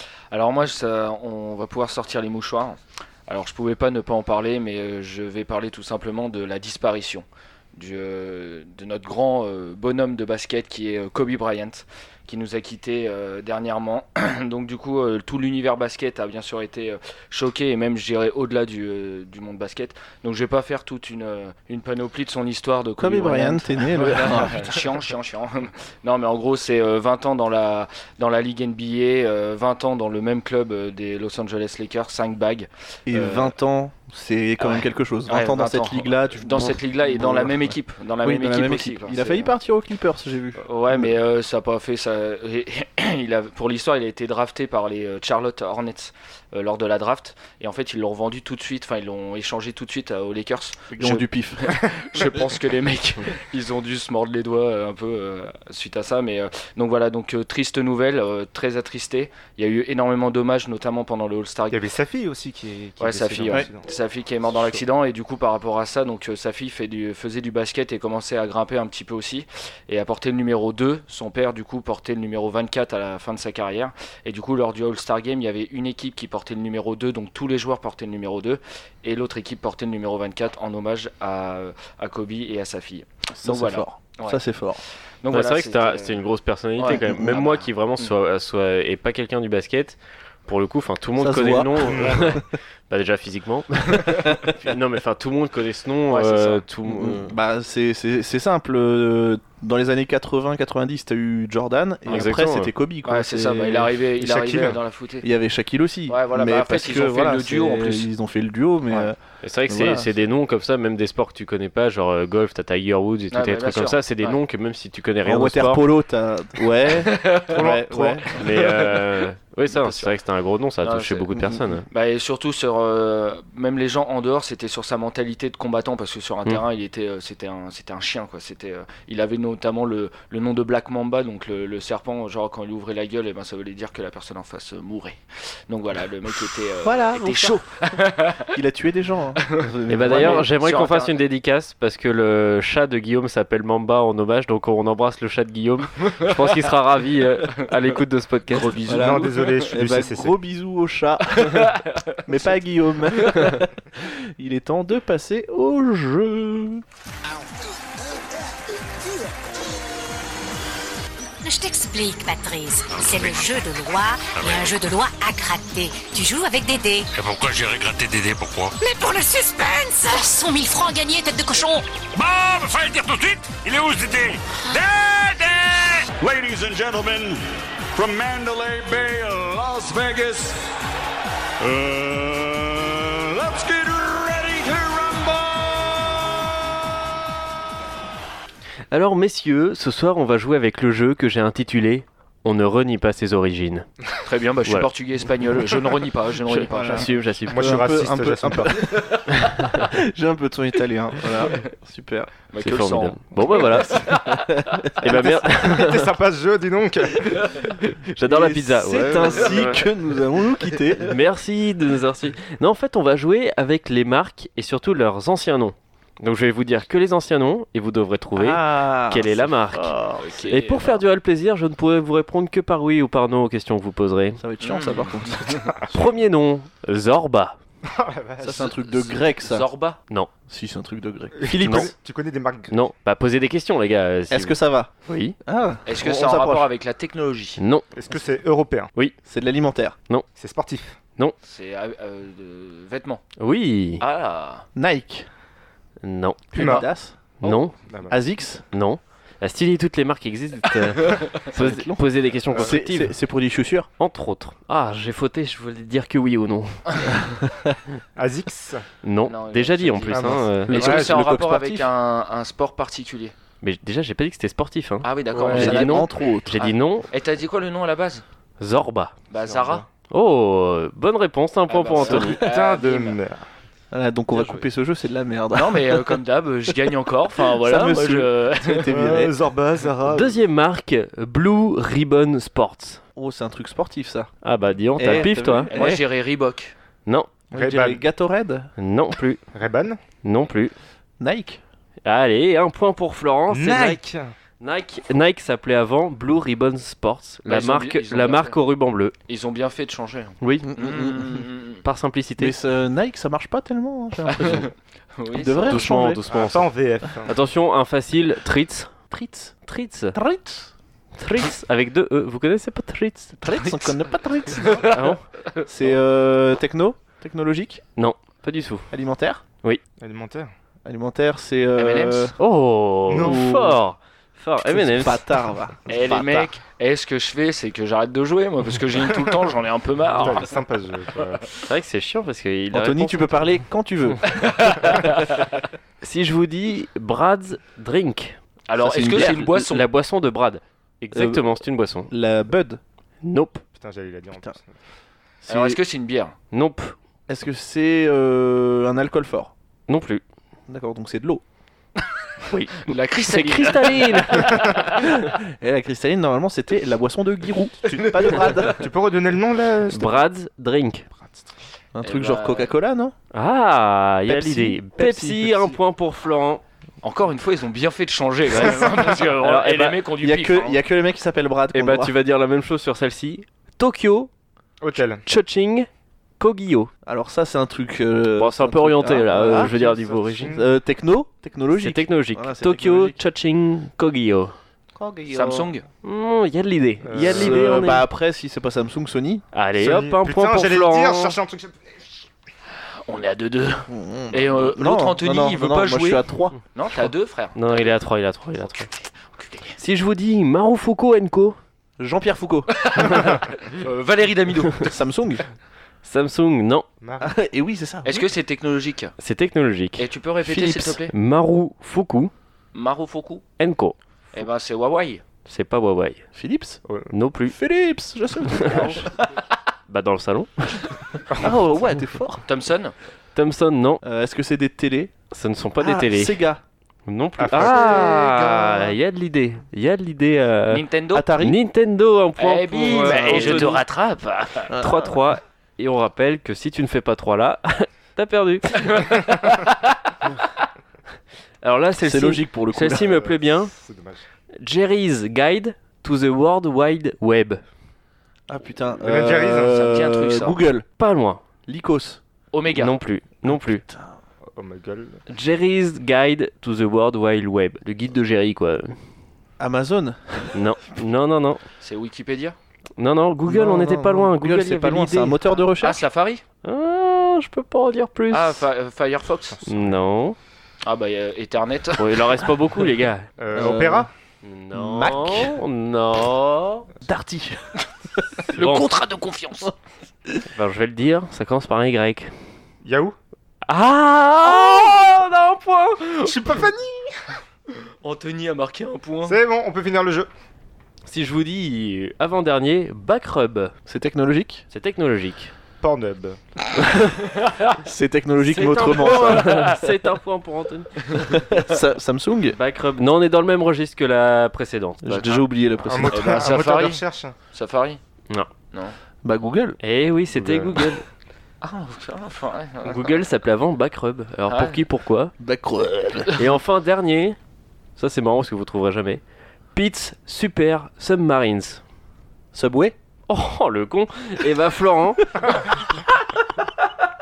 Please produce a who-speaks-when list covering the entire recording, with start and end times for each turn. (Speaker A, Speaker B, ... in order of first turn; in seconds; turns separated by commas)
Speaker A: 0.3-33.5, Speaker B: 23.0-24.8, Speaker B: 33.1-41.1, Speaker A: 34.6-39.5, Speaker A: 40.6-61.8, Speaker B: 50.9-51.8, Speaker C: 61.7-63.9, Speaker A: 63.0-84.4, Speaker C: 64.6-64.8, Speaker B: 83.3-84.8, Speaker A: 85.2-86.2, Speaker D: 85.3-97.3, Speaker A: 86.8-88.1, Speaker B: 86.9-87.5, Speaker B: 91.2-92.4, Speaker C: 91.8-92.4, Speaker A: 96.1-96.6, Speaker B: 96.8-104.0, Speaker D: 102.1-102.7, Speaker A: 103.0-105.3, Speaker C: 104.2-104.7, Speaker B: 105.2-109.2, Speaker A: 106.1-108.1, Speaker D: 109.4-115.9, Speaker B: 109.7-110.1, Speaker A: 113.3-114.4, Speaker B: 115.2-118.3, Speaker A: 117.1-117.5, Speaker C: 117.5-118.2, Speaker D: 118.3-121.8, Speaker A: 118.4-119.0, Speaker A: 119.7-120.1, Speaker A: 120.8-121.3, Speaker A: 121.9-138.5, Speaker B: 136.8-137.7, Speaker B: 138.4-140.5, Speaker A: 139.5-141.2, Speaker D: 139.9-148.8, Speaker A: 148.5-149.7, Speaker B: 148.8-156.8, Speaker C: 148.9-150.3, Speaker A: 151.4-152.2, Speaker E: 161.4-167.1, Speaker F: 162.9-163.6, Speaker F: 164.3-164.7, Speaker F: 167.1-168.8, Speaker E: 168.8-171.9, Speaker F: 172.1-177.4, Speaker F: 177.9-180.6, Speaker F: 181.6-186.8, Speaker D: 188.9-193.9, Speaker A: 194.2-197.1, Speaker D: 196.5-197.8, Speaker B: 196.7-202.3, Speaker C: 197.5-199.1, Speaker A: 202.5-204.5, Speaker D: 202.6-204.0, Speaker B: 204.2-204.9, Speaker D: 205.0-206.1, Speaker C: 205.0-207.7, Speaker D: 207.9-209.8, Speaker B: 208.2-211.1, Speaker D: 211.0-219.9, Speaker B: 218.3-220.3, Speaker A: 220.2-221.0, Speaker D: 220.4-224.4, Speaker B: 224.4-225.7, Speaker A: 224.6-225.7, Speaker D: 225.9-227.6, Speaker C: 227.8-228.8, Speaker B: 228.4-229.7, Speaker A: 228.9-230.0, Speaker B: 230.5-231.9, Speaker C: 231.4-232.8, Speaker D: 231.6-231.9, Speaker D: 232.7-235.3, Speaker B: 234.3-234.9, Speaker B: 235.4-236.7, Speaker A: 235.8-237.6, Speaker D: 237.6-237.9, Speaker C: 237.9-238.9, Speaker B: 239.2-240.0, Speaker C: 240.3-241.0, Speaker A: 241.4-243.2, Speaker D: 243.4-244.0, Speaker A: 244.0-244.7, Speaker B: 244.8-245.3, Speaker D: 246.0-246.6, Speaker B: 246.5-247.2, Speaker C: 246.5-246.8, Speaker A: 246.6-246.8, Speaker D: 247.4-247.8, Speaker C: 247.8-248.1, Speaker B: 248.1-248.6, Speaker D: 248.7-253.1, Speaker B: 251.5-253.9, Speaker D: 254.0-257.1, Speaker B: 257.3-257.7, Speaker C: 258.1-258.9, Speaker D: 259.0-260.7, Speaker A: 259.2-263.3, Speaker C: 260.1-261.2, Speaker B: 260.7-261.9, Speaker D: 263.6-267.1, Speaker A: 265.0-268.2, Speaker B: 265.5-266.7, Speaker D: 268.6-269.1, Speaker A: 269.3-269.8, Speaker C: 269.5-269.9, Speaker D: 270.1-272.4, Speaker A: 271.7-273.2, Speaker C: 272.1-273.4, Speaker B: 273.9-276.2, Speaker A: 275.5-278.9, Speaker B: 277.4-279.4, Speaker C: 278.9-280.4, Speaker D: 280.1-283.0, Speaker B: 283.1-284.3, Speaker D: 284.4-285.9, Speaker B: 285.0-286.0, Speaker A: 285.1-286.7, Speaker B: 287.5-288.7, Speaker C: 287.5-288.0, Speaker D: 288.8-289.4, Speaker C: 289.5-290.0, Speaker D: 290.2-290.7, Speaker B: 291.2-291.6, Speaker D: 292.0-294.0, Speaker C: 293.5-294.3, Speaker D: 294.6-299.1, Speaker A: 297.4-298.6, Speaker A: 299.3-301.8, Speaker D: 300.4-300.7, Speaker B: 300.7-301.3, Speaker D: 301.8-302.6, Speaker B: 302.4-304.7, Speaker A: 304.3-305.8, Speaker B: 305.3-306.2, Speaker D: 305.7-306.7, Speaker C: 306.3-307.3, Speaker D: 307.2-309.1, Speaker B: 309.1-309.6, Speaker D: 309.6-310.1, Speaker B: 310.1-310.7, Speaker D: 311.2-313.4, Speaker B: 313.4-315.0, Speaker A: 314.6-315.6, Speaker D: 314.9-315.2, Speaker B: 315.6-317.8, Speaker D: 318.0-318.9, Speaker B: 318.9-319.4, Speaker C: 320.0-320.5, Speaker B: 320.8-322.3, Speaker A: 321.8-322.3, Speaker D: 322.4-325.2, Speaker C: 323.1-323.5, Speaker B: 323.2-323.8, Speaker B: 324.6-326.5, Speaker A: 325.9-330.5, Speaker C: 330.2-331.5, Speaker D: 331.7-333.3, Speaker B: 332.7-334.4, Speaker A: 334.3-335.4, Speaker D: 336.0-338.4, Speaker A: 338.7-339.8, Speaker B: 338.8-339.5, Speaker D: 339.2-342.1, Speaker B: 341.1-341.6, Speaker B: 342.1-342.8, Speaker D: 343.2-343.6, Speaker C: 343.8-344.7, Speaker B: 345.5-345.8, Speaker A: 345.5-346.3, Speaker D: 346.5-346.9, Speaker B: 347.3-349.5, Speaker D: 349.9-350.2, Speaker B: 350.7-351.4, Speaker D: 352.5-354.6, Speaker A: 352.8-354.9, Speaker B: 354.8-358.9, Speaker C: 357.8-360.2, Speaker D: 359.9-361.1, Speaker C: 361.2-361.5, Speaker B: 361.9-363.1, Speaker A: 362.0-362.7, Speaker D: 363.3-366.6, Speaker B: 364.3-365.8, Speaker A: 367.0-370.8, Speaker D: 369.3-370.0, Speaker B: 370.2-372.1, Speaker D: 371.7-374.3, Speaker C: 374.8-375.2, Speaker D: 375.0-375.9, Speaker D: 376.4-376.9, Speaker B: 377.0-383.2, Speaker D: 378.4-380.5, Speaker C: 379.4-380.7, Speaker D: 381.8-384.5, Speaker B: 385.0-385.7, Speaker A: 385.3-385.8, Speaker D: 386.0-388.1, Speaker C: 387.0-387.8, Speaker B: 387.1-389.4, Speaker D: 389.5-391.4, Speaker C: 389.8-392.0, Speaker A: 393.1-396.2, Speaker B: 393.9-396.6, Speaker A: 396.7-397.9, Speaker D: 397.5-398.9, Speaker A: 399.4-399.8, Speaker D: 399.8-401.6, Speaker B: 402.0-403.1, Speaker A: 402.8-405.0, Speaker B: 404.8-405.4, Speaker D: 406.0-406.9, Speaker C: 407.0-407.3, Speaker B: 407.2-408.3, Speaker A: 408.0-409.1, Speaker D: 409.2-410.0, Speaker A: 410.0-411.1, Speaker B: 410.4-411.0, Speaker D: 411.1-412.3, Speaker A: 412.7-413.4, Speaker D: 413.6-413.9, Speaker A: 414.3-415.2, Speaker D: 415.4-416.2, Speaker B: 416.3-416.8, Speaker D: 417.1-417.6, Speaker B: 417.5-419.1, Speaker D: 418.5-419.0, Speaker D: 419.9-420.9, Speaker B: 421.4-422.4, Speaker A: 422.5-422.9, Speaker D: 423.3-424.0, Speaker B: 424.0-425.1, Speaker D: 425.3-426.4, Speaker B: 425.8-426.6, Speaker D: 427.1-430.8, Speaker C: 427.4-428.8, Speaker B: 427.6-428.0, Speaker A: 430.7-431.3, Speaker B: 431.1-431.6, Speaker D: 431.4-433.8, Speaker A: 432.4-434.7, Speaker B: 432.9-433.8, Speaker B: 434.7-435.2, Speaker D: 434.8-439.2, Speaker D: 441.6-443.7, Speaker B: 442.0-443.2, Speaker C: 442.9-444.2, Speaker D: 444.6-447.6, Speaker B: 448.5-450.9, Speaker C: 449.0-449.8, Speaker A: 449.6-450.6, Speaker D: 451.0-451.4, Speaker B: 451.7-452.2, Speaker A: 452.5-453.0, Speaker D: 452.7-453.8, Speaker B: 453.4-454.1, Speaker C: 454.5-455.2, Speaker D: 455.3-459.0, Speaker B: 459.6-460.6, Speaker D: 460.5-461.6, Speaker A: 461.8-462.6, Speaker D: 463.0-465.6, Speaker B: 463.5-466.0, Speaker A: 465.8-466.4, Speaker D: 466.6-468.6, Speaker A: 468.3-469.6, Speaker C: 469.5-470.1, Speaker D: 469.6-470.4, Speaker A: 470.8-472.1, Speaker D: 472.0-473.3, Speaker C: 473.4-474.1, Speaker B: 473.5-474.1, Speaker D: 474.4-476.9, Speaker B: 474.7-475.6, Speaker B: 477.0-477.6, Speaker B: 478.2-478.5, Speaker D: 478.5-478.9, Speaker A: 478.5-479.7, Speaker D: 480.5-482.3, Speaker C: 482.8-483.2, Speaker D: 483.6-486.3, Speaker C: 486.2-487.4, Speaker A: 488.0-489.4, Speaker C: 489.2-490.3, Speaker D: 491.1-493.8, Speaker B: 493.9-494.6, Speaker D: 494.7-495.5, Speaker C: 495.8-496.4, Speaker B: 497.8-499.7, Speaker D: 498.4-501.0, Speaker A: 499.4-499.7, Speaker B: 501.2-502.6, Speaker D: 502.5-505.2, Speaker B: 505.0-506.6, Speaker C: 505.8-507.3, Speaker A: 506.1-508.0, Speaker B: 509.2-509.8, Speaker D: 509.8-511.0, Speaker C: 510.3-510.9, Speaker A: 511.6-513.2, Speaker D: 512.8-515.3, Speaker A: 514.5-514.8, Speaker B: 515.4-516.4, Speaker D: 516.3-517.4, Speaker D: 518.0-519.2, Speaker D: 519.8-521.8, Speaker B: 522.5-523.0, Speaker D: 523.3-525.3